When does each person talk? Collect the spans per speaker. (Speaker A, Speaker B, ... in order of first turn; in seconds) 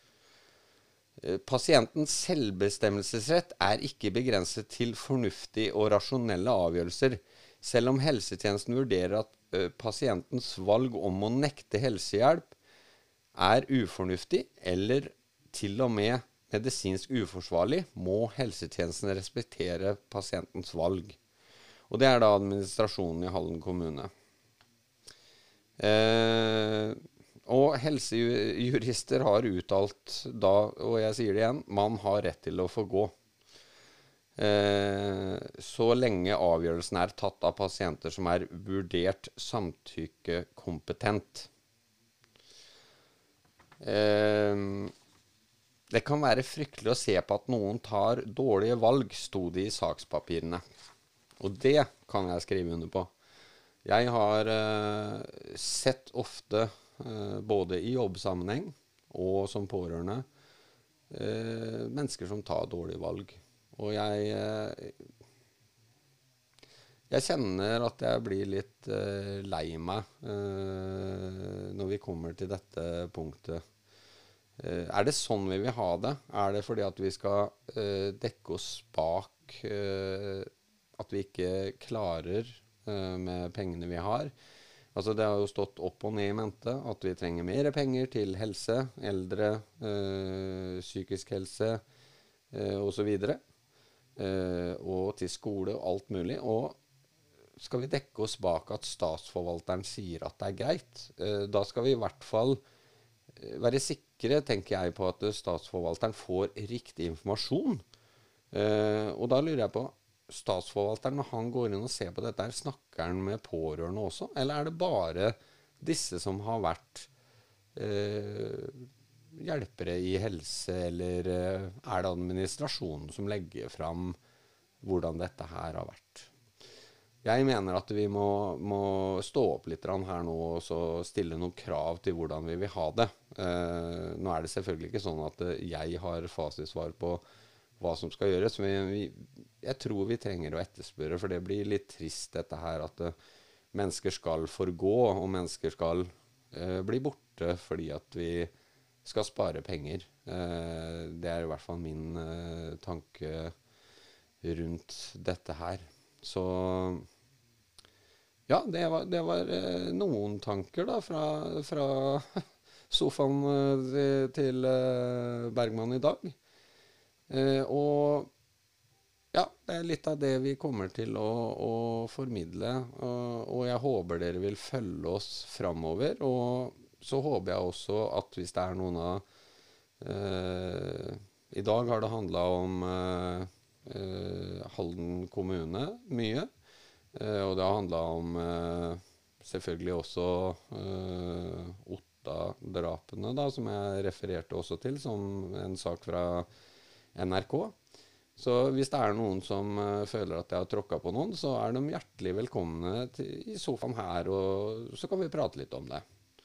Speaker A: 1.2-12.6, 13.3-21.2, 21.9-24.1, 25.8-33.1, 34.4-41.5, 43.8-44.9, 45.9-50.6, 51.4-53.1, 53.8-60.2, 61.1-65.0, 67.1-73.6, 74.6-84.3, 85.0-91.8, 92.5-93.4, 94.2-96.8, 97.6-102.6, 103.4-107.8, 108.5-117.1, 117.8-124.2, 124.8-126.3, 127.2-137.2, 137.8-143.1, 143.7-148.5, 149.0-153.5, 154.4-157.1, 158.5-166.4, 167.3-168.3, 169.3-179.2, 180.0-186.5, 187.1-196.5, 197.1-197.8, 198.4-206.0